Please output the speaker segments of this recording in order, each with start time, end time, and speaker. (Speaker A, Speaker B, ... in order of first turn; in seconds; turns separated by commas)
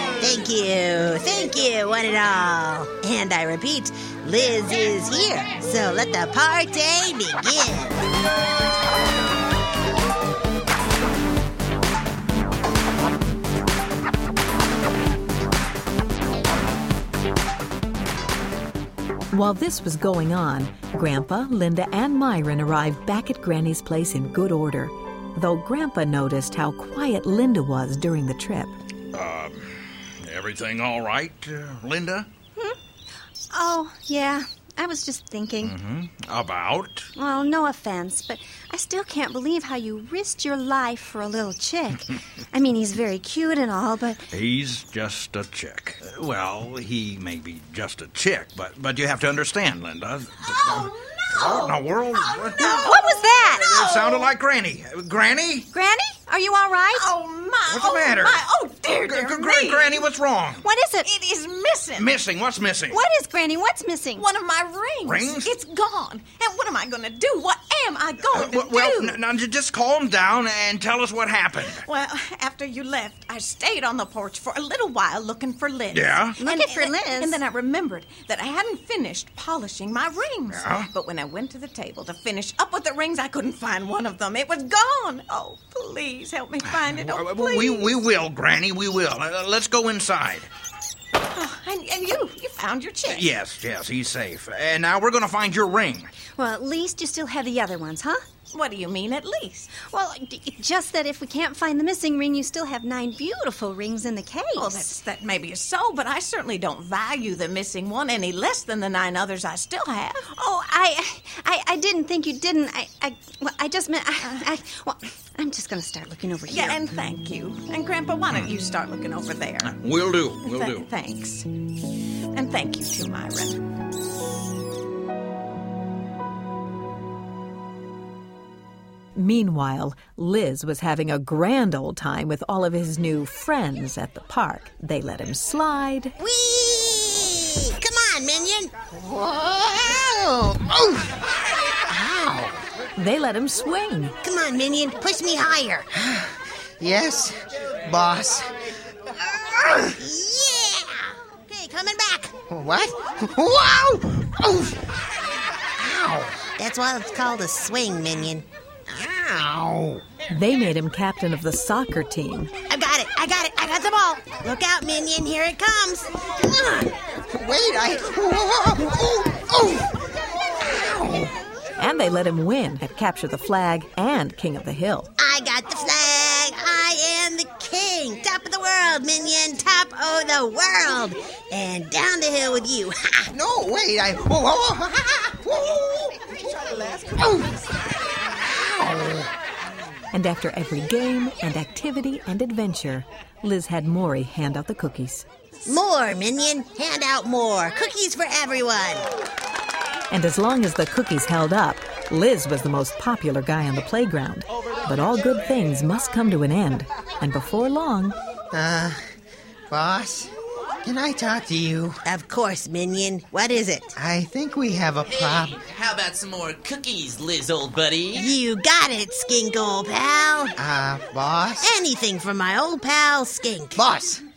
Speaker A: 0.2-8.0, Speaker B: 19.3-28.7, Speaker C: 29.1-32.3, Speaker D: 33.5-35.7, Speaker C: 35.6-37.1, Speaker D: 37.1-44.2, Speaker C: 44.3-55.7, Speaker D: 52.6-53.8, Speaker E: 52.6-54.3, Speaker D: 55.7-57.1, Speaker E: 56.9-60.0, Speaker C: 57.7-58.4, Speaker C: 59.0-60.6, Speaker D: 60.6-61.1, Speaker E: 61.0-62.1, Speaker C: 62.0-63.0, Speaker D: 62.9-64.2, Speaker E: 64.2-69.2, Speaker C: 65.0-65.5, Speaker C: 68.3-71.8, Speaker E: 71.8-88.0, Speaker C: 75.9-76.4, Speaker D: 76.4-77.4, Speaker C: 80.5-80.9, Speaker C: 86.7-90.5, Speaker E: 91.3-93.3, Speaker C: 93.0-96.1, Speaker D: 96.3-98.2, Speaker E: 98.5-99.7, Speaker D: 99.8-104.9, Speaker E: 104.5-110.3, Speaker D: 110.3-116.8, Speaker E: 116.5-119.7, Speaker C: 119.6-120.9, Speaker E: 120.4-121.5, Speaker E: 122.3-123.6, Speaker B: 129.2-136.2, Speaker A: 136.2-138.7, Speaker F: 138.9-142.6, Speaker B: 143.0-144.1, Speaker A: 144.2-145.9, Speaker F: 145.9-148.6, Speaker F: 149.2-150.0, Speaker A: 150.0-152.4, Speaker F: 152.5-155.0, Speaker F: 155.8-156.5, Speaker A: 156.6-158.4, Speaker F: 158.9-160.0, Speaker B: 160.3-162.5, Speaker A: 162.7-166.9, Speaker F: 167.3-171.3, Speaker B: 171.8-175.1, Speaker A: 175.2-183.3, Speaker F: 183.3-189.3, Speaker B: 190.1-195.2, Speaker A: 195.7-199.1, Speaker B: 200.1-208.1, Speaker F: 208.5-209.0, Speaker F: 209.7-210.3, Speaker F: 210.8-212.0, Speaker A: 212.0-213.9, Speaker F: 213.9-215.6, Speaker G: 215.0-218.3, Speaker A: 218.1-220.6, Speaker F: 220.6-221.7, Speaker A: 221.6-223.8, Speaker F: 223.8-224.2